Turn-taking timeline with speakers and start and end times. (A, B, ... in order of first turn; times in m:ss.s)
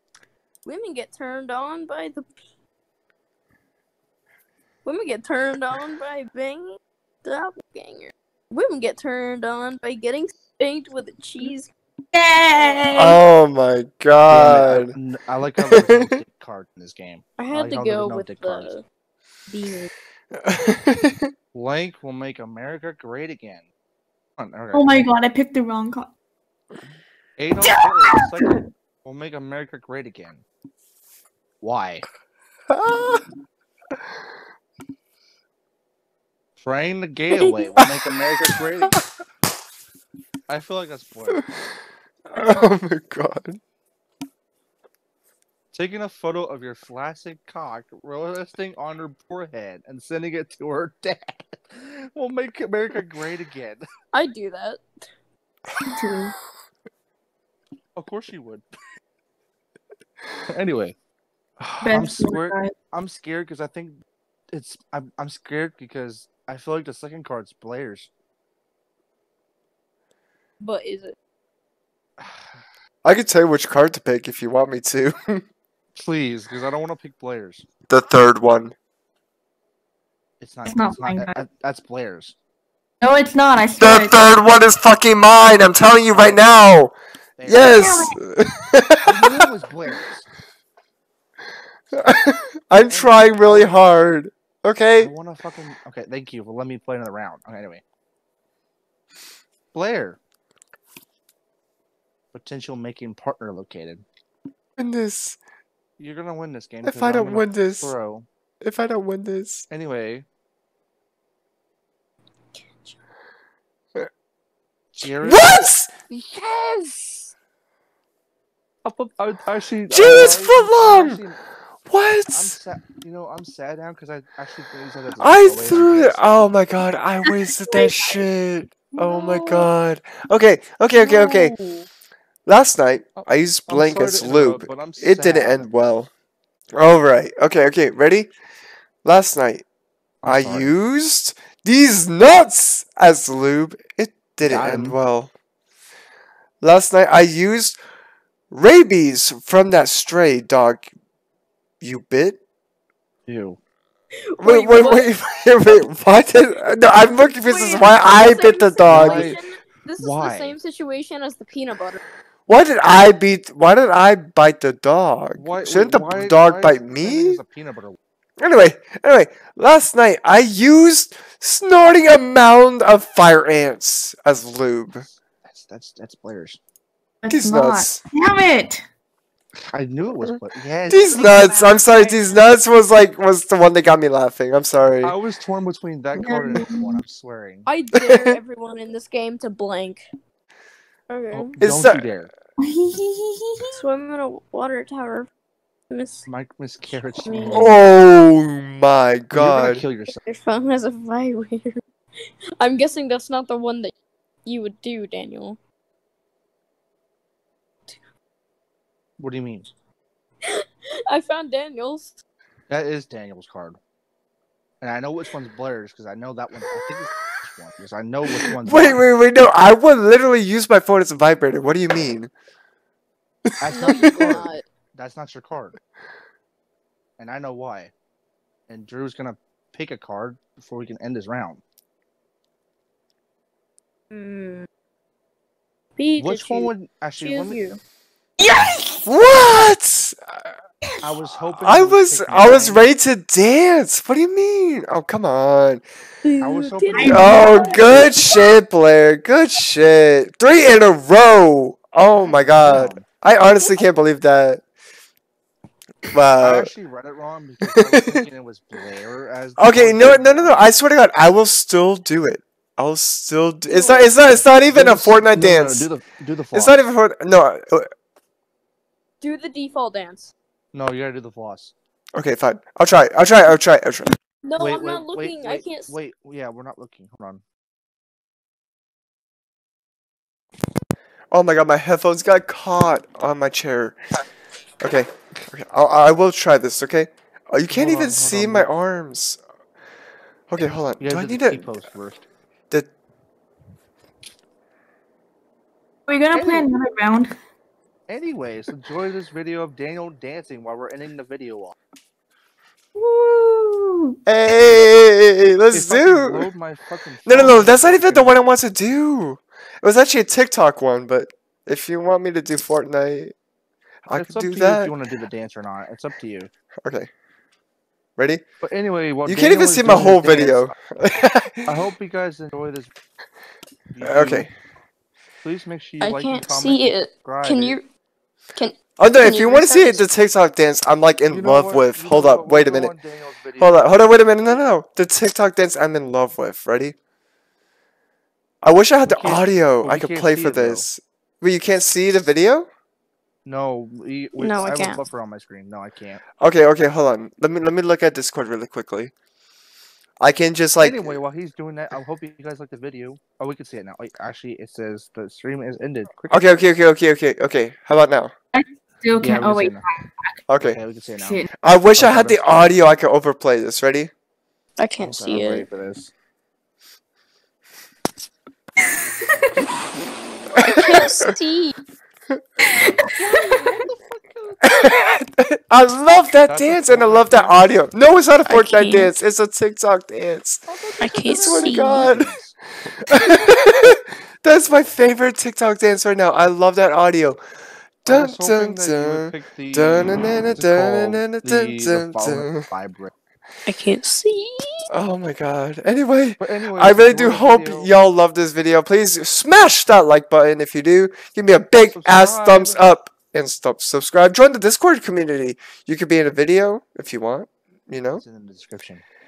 0:00.6-0:02.3 A
0:04.8-0:11.7 A
0:12.1-0:13.2 B
0:12.6-0:12.8 A
0:12.9-0:15.0 C
0:14.3-0:18.7 D
0:15.7-0:16.2 C
0:17.4-0:18.8 A
0:19.5-0:19.9 A
0:20.4-0:21.3 C
0:21.5-0:23.7 D
0:24.4-0:25.1 D
0:24.7-0:26.1 B
0:27.4-0:30.4 D
0:27.6-0:28.6 B
0:31.6-0:32.1 D
0:32.7-0:33.2 C
0:36.6-0:39.0 D
0:40.5-0:41.6 D
0:42.3-0:43.6 C
0:45.7-0:53.9 D
0:54.1-0:54.8 A
0:55.8-0:56.4 B
0:58.0-0:58.6 D
1:00.5-1:01.0 D
1:01.6-1:08.1 D
1:01.8-1:02.7 B
1:10.6-1:11.2 A
1:12.2-1:12.6 D
1:13.0-1:15.4 C
1:16.0-1:17.7 D
1:17.9-1:18.7 C
1:20.4-1:22.4 D
1:20.7-1:21.4 B
1:23.0-1:24.2 B
1:23.8-1:26.9 C
1:26.1-1:26.6 D
1:27.4-1:27.8 D
1:27.5-1:29.5 C
1:27.6-1:28.2 B
1:29.0-1:30.3 D
1:31.9-1:35.1 C
1:32.8-1:33.8 D
1:35.0-1:37.8 D
1:39.7-1:40.2 D
1:42.3-1:44.0 D
1:44.8-1:45.4 C
1:46.0-1:48.3 D
1:46.8-1:47.9 C
1:48.6-1:49.6 C
1:49.7-1:50.3 D
1:52.5-1:53.0 A
1:54.9-1:57.3 D
1:55.2-1:55.9 C
1:58.8-2:01.4 D
1:59.9-2:01.2 C
2:01.9-2:02.5 C
2:02.3-2:06.4 D
2:05.2-2:11.6 C
2:07.8-2:08.2 A
2:09.0-2:09.5 A
2:11.0-2:11.9 A
2:12.5-2:16.1 C
2:13.2-2:16.0 D
2:16.7-2:18.3 C
2:19.0-2:19.6 C
2:20.2-2:20.7 D
2:20.3-2:25.3 C
2:24.4-2:25.0 D
2:26.6-2:27.8 C
2:28.5-2:30.9 C
2:31.8-2:32.4 C
2:33.3-2:33.6 D
2:34.3-2:35.2 A
2:34.4-2:39.4 C
2:37.0-2:42.0 A
2:38.9-2:39.4 D
2:40.0-2:40.6 D
2:42.5-2:47.4 C
2:45.4-2:48.0 D
2:48.4-2:55.0 C
2:55.1-2:56.6 D
2:57.2-2:58.9 B
2:57.3-2:58.0 C
2:59.7-3:01.4 D
3:00.9-3:05.2 C
3:01.0-3:02.3 A
3:05.0-3:07.7 D
3:06.2-3:07.0 B
3:07.7-3:10.0 A
3:08.0-3:08.4 C
3:11.1-3:11.5 A
3:11.3-3:12.3 D
3:11.6-3:12.0 C
3:12.6-3:13.8 B
3:13.7-3:15.3 A
3:15.9-3:16.3 A
3:16.3-3:17.7 D
3:17.2-3:17.7 A
3:17.5-3:19.8 C
3:19.3-3:20.2 D
3:20.2-3:21.8 A
3:22.6-3:23.9 A
3:24.4-3:25.6 A
3:29.2-3:29.7 D
3:30.4-3:32.2 A
3:32.7-3:33.8 D
3:34.8-3:39.0 D
3:38.6-3:42.3 C
3:43.5-3:44.4 C
3:43.6-3:45.8 D
3:43.7-3:44.6 A
3:47.2-3:47.9 D
3:48.7-3:51.6 D
3:54.1-3:54.7 A
3:56.0-3:57.8 A
3:56.2-3:57.6 D
3:58.4-3:59.1 B
3:59.1-4:00.5 C
4:01.0-4:02.9 D
4:01.6-4:05.8 C
4:06.2-4:08.5 A
4:06.4-4:07.4 D
4:06.9-4:07.7 B
4:07.1-4:14.6 C
4:12.2-4:13.1 D
4:16.1-4:16.7 C
4:16.4-4:20.7 D
4:17.9-4:18.2 C
4:19.6-4:25.9 C
4:23.7-4:24.1 A
4:24.7-4:26.8 D
4:26.5-4:27.9 C
4:29.2-4:30.3 A
4:30.7-4:31.7 D
4:32.2-4:34.2 C
4:34.4-4:35.9 A
4:34.6-4:37.4 D
4:41.3-4:44.0 C
4:44.8-4:49.4 C
4:47.7-4:48.7 D
4:50.5-4:51.7 C
4:51.0-4:52.3 D
4:56.1-4:57.3 B
4:56.3-4:56.7 D
4:58.1-5:01.8 D
5:03.0-5:04.2 B
5:04.3-5:06.5 C
5:05.7-5:08.4 D
5:07.3-5:13.3 C
5:14.1-5:14.9 C
5:14.1-5:16.5 D
5:16.8-5:17.1 C
5:18.2-5:18.4 C
5:18.6-5:20.8 D
5:19.3-5:21.7 C
5:21.7-5:22.9 D
5:23.9-5:24.5 D
5:24.0-5:24.5 C
5:25.4-5:27.8 D
5:26.0-5:27.8 A
5:28.6-5:30.1 A
5:29.0-5:32.9 C
5:31.3-5:34.6 D
5:33.6-5:37.0 C
5:38.6-5:42.7 C
5:39.0-5:40.9 D
5:43.4-5:46.2 D
5:44.4-5:45.0 A
5:46.4-5:49.1 C
5:50.2-5:51.2 C
5:50.8-5:56.7 D
5:56.3-5:58.3 C
5:58.5-6:00.4 B
5:59.2-5:59.8 D
6:00.5-6:00.8 C
6:00.6-6:02.6 D
6:01.2-6:01.5 B
6:01.6-6:04.1 C
6:04.8-6:05.7 A
6:05.0-6:06.1 D
6:10.6-6:11.0 C
6:10.6-6:11.8 A
6:13.0-6:14.7 D
6:14.7-6:20.6 C
6:16.5-6:17.7 D
6:18.5-6:19.1 A
6:20.7-6:22.6 D
6:21.0-6:22.1 A
6:21.2-6:22.3 C
6:23.0-6:27.4 C
6:28.0-6:32.6 C
6:28.1-6:33.1 D
6:33.7-6:34.8 A
6:34.9-6:48.2 C
6:36.4-6:37.9 D
6:42.0-6:42.8 D
6:48.2-6:49.0 D